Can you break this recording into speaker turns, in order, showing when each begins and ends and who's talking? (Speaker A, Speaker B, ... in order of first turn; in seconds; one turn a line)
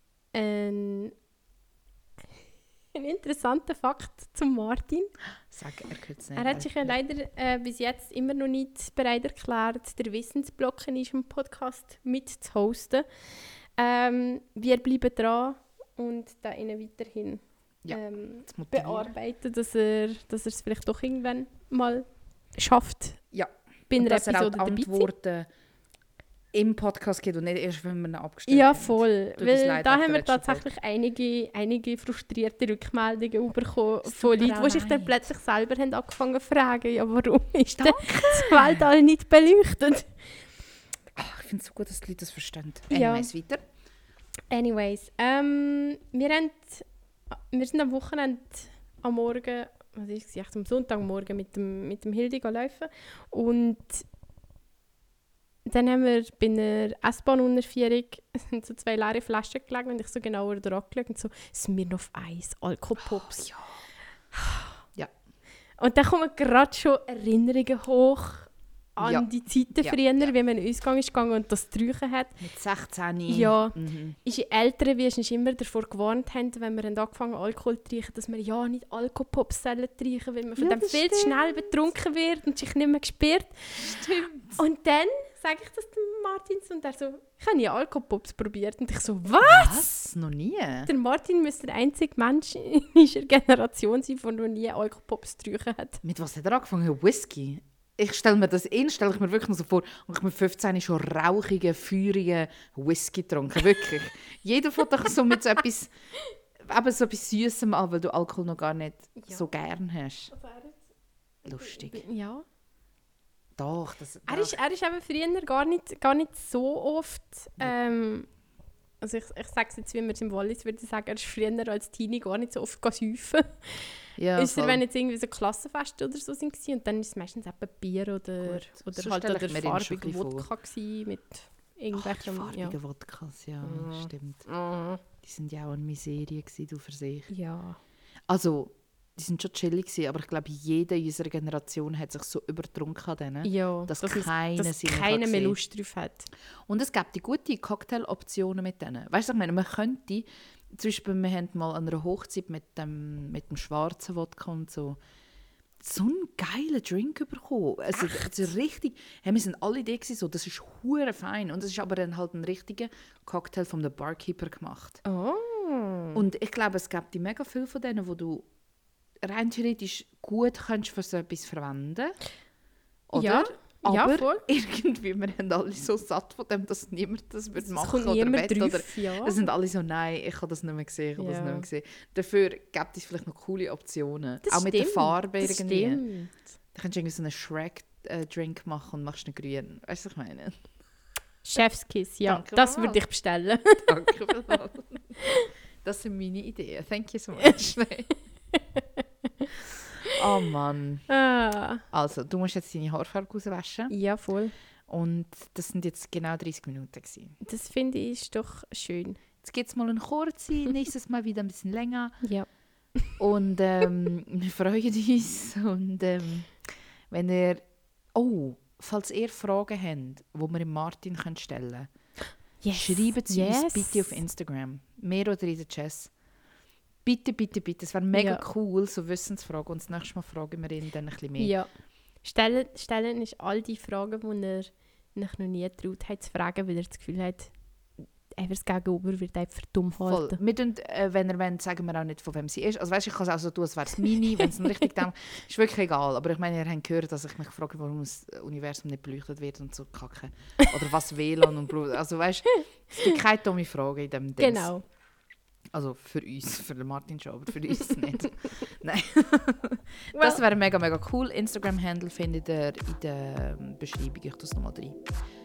Speaker A: 0.3-1.1
Speaker A: 2.9-5.1
Speaker B: 5.5-6.9
Speaker A: 6.3-13.1
Speaker A: 13.8-23.2
Speaker B: 17.8-19.1
Speaker B: 23.3-25.5
Speaker A: 23.9-25.1
Speaker B: 26.5-30.6
Speaker A: 28.5-40.2
Speaker B: 34.0-35.1
Speaker B: 37.7-38.8
Speaker B: 41.1-43.6
Speaker A: 42.9-43.3
Speaker A: 44.5-54.0
Speaker A: 55.6-63.5
Speaker B: 63.0-63.8
Speaker A: 64.4-64.6
Speaker A: 65.8-72.4
Speaker B: 69.0-69.3
Speaker B: 72.4-74.2
Speaker A: 73.3-84.0
Speaker B: 80.6-81.8
Speaker B: 83.8-84.6
Speaker A: 84.5-89.8
Speaker B: 89.4-90.9
Speaker A: 90.9-96.0
Speaker B: 96.0-105.9
Speaker B: 106.6-110.3
Speaker A: 109.2-109.5
Speaker A: 110.3-110.8
Speaker B: 111.4-112.0
Speaker A: 111.5-112.4
Speaker B: 113.6-114.5
Speaker A: 114.3-118.3
Speaker A: 119.0-132.8
Speaker B: 124.2-124.8
Speaker B: 128.4-130.5
Speaker B: 131.9-134.5
Speaker A: 133.6-135.0
Speaker B: 135.2-137.3
Speaker A: 137.3-137.8
Speaker B: 138.3-145.6
Speaker A: 143.4-146.3
Speaker B: 146.7-155.0
Speaker B: 155.8-165.0
Speaker A: 157.9-158.4
Speaker A: 165.0-166.2
Speaker B: 166.1-168.5
Speaker B: 169.2-172.2
Speaker B: 173.1-186.0
Speaker A: 173.1-174.4
Speaker A: 177.6-179.4
Speaker A: 181.2-181.6
Speaker A: 184.4-186.4
Speaker B: 186.7-190.6
Speaker A: 191.4-193.9
Speaker B: 192.2-193.0
Speaker B: 193.8-195.1
Speaker B: 195.8-198.1
Speaker A: 198.5-199.5
Speaker B: 200.1-201.1
Speaker A: 201.1-201.8
Speaker B: 201.9-203.9
Speaker A: 203.9-204.5
Speaker B: 204.9-207.4
Speaker A: 207.4-209.2
Speaker B: 209.4-212.2
Speaker A: 212.2-213.2
Speaker B: 213.2-221.9
Speaker A: 222.6-224.2
Speaker B: 222.7-226.1
Speaker B: 227.0-231.5
Speaker A: 228.1-228.4
Speaker A: 231.4-237.5
Speaker A: 238.3-240.4
Speaker B: 240.1-254.7
Speaker A: 254.4-254.8
Speaker B: 255.7-265.0
Speaker A: 260.1-260.4